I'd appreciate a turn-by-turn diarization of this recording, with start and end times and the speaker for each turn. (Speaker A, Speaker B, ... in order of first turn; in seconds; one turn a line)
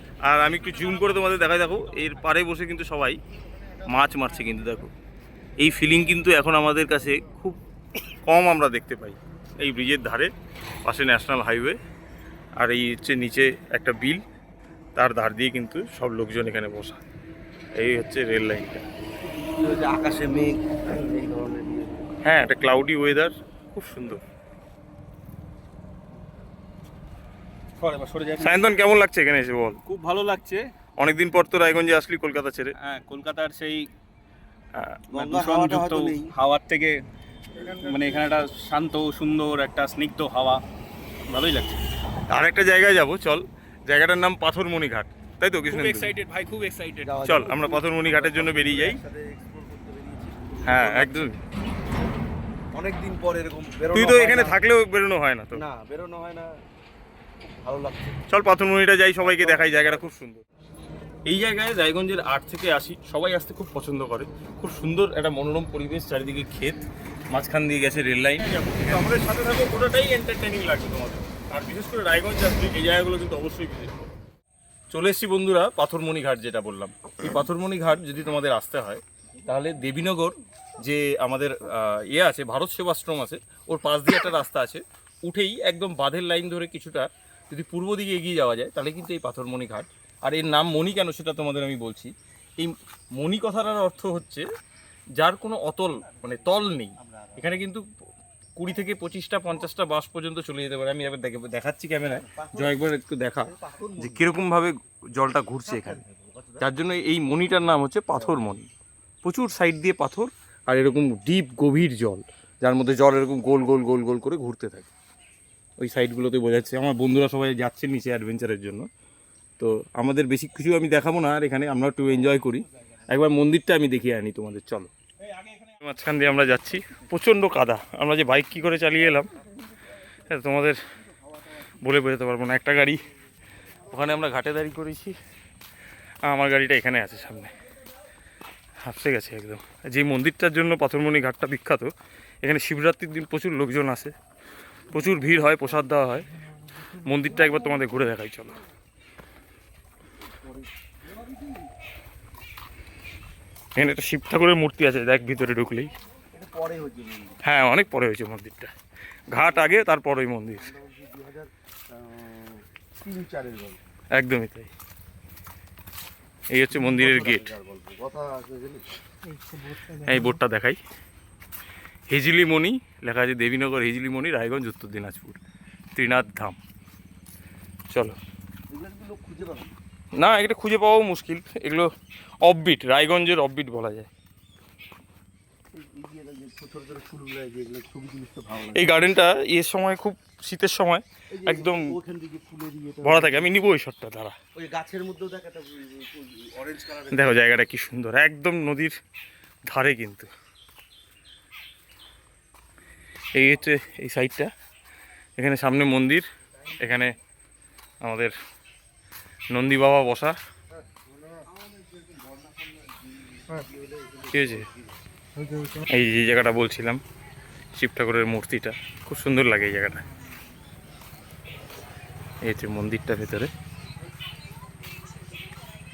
Speaker A: 0.3-3.2
Speaker A: 3.8-4.9
Speaker A: 5.6-7.6
Speaker A: 8.2-10.3
Speaker A: 10.8-11.8
Speaker A: 12.6-14.2
Speaker A: 14.9-17.0
Speaker A: 17.8-18.8
Speaker B: 19.2-22.1
Speaker A: 22.2-24.2
Speaker C: 27.8-28.7
Speaker A: 28.4-29.8
Speaker C: 29.8-30.6
Speaker A: 31.0-32.7
Speaker C: 32.8-33.9
Speaker A: 34.7-35.0
Speaker B: 35.1-36.3
Speaker C: 35.1-37.0
Speaker C: 37.5-40.6
Speaker C: 41.3-41.8
Speaker A: 42.3-46.1
Speaker C: 45.7-47.2
Speaker B: 47.0-51.3
Speaker A: 47.2-49.0
Speaker A: 50.6-51.4
Speaker B: 52.7-54.6
Speaker A: 53.9-55.6
Speaker B: 55.5-56.5
Speaker B: 57.5-58.2
Speaker A: 58.3-60.4
Speaker B: 59.2-60.0
Speaker A: 61.3-74.1
Speaker A: 74.9-94.4
Speaker A: 95.2-97.8
Speaker B: 96.1-97.3
Speaker A: 98.6-106.0
Speaker B: 102.2-102.8
Speaker B: 103.4-104.3
Speaker B: 105.6-106.7
Speaker A: 106.6-108.6
Speaker B: 108.1-108.4
Speaker A: 109.2-114.9
Speaker A: 115.8-118.9
Speaker A: 119.6-124.9
Speaker A: 125.7-129.3
Speaker A: 130.3-130.8
Speaker A: 131.8-133.0
Speaker A: 133.9-135.2
Speaker A: 136.3-137.5
Speaker A: 138.8-141.9
Speaker A: 142.4-144.1
Speaker A: 144.9-146.3
Speaker A: 146.9-148.6
Speaker B: 150.3-151.7
Speaker A: 153.8-155.9
Speaker B: 156.3-157.4
Speaker A: 157.4-158.7
Speaker A: 159.3-160.7
Speaker B: 160.6-163.8
Speaker A: 164.1-164.7
Speaker A: 166.5-167.5
Speaker B: 166.8-168.8
Speaker A: 169.7-170.8
Speaker A: 172.1-175.4
Speaker A: 175.9-176.6
Speaker A: 177.9-178.2
Speaker B: 178.7-179.7
Speaker A: 180.2-181.9
Speaker A: 182.4-184.1
Speaker B: 185.7-188.8
Speaker A: 188.7-191.9
Speaker B: 191.3-193.5
Speaker A: 193.0-194.3
Speaker B: 194.6-197.4
Speaker A: 197.1-198.9
Speaker A: 199.7-200.3
Speaker A: 203.3-204.5
Speaker A: 205.4-206.2
Speaker A: 206.8-207.1
Speaker A: 208.0-208.3
Speaker A: 209.5-210.4
Speaker B: 210.9-214.9
Speaker A: 214.3-214.7
Speaker A: 215.8-217.0
Speaker A: 217.7-220.0
Speaker A: 222.4-223.5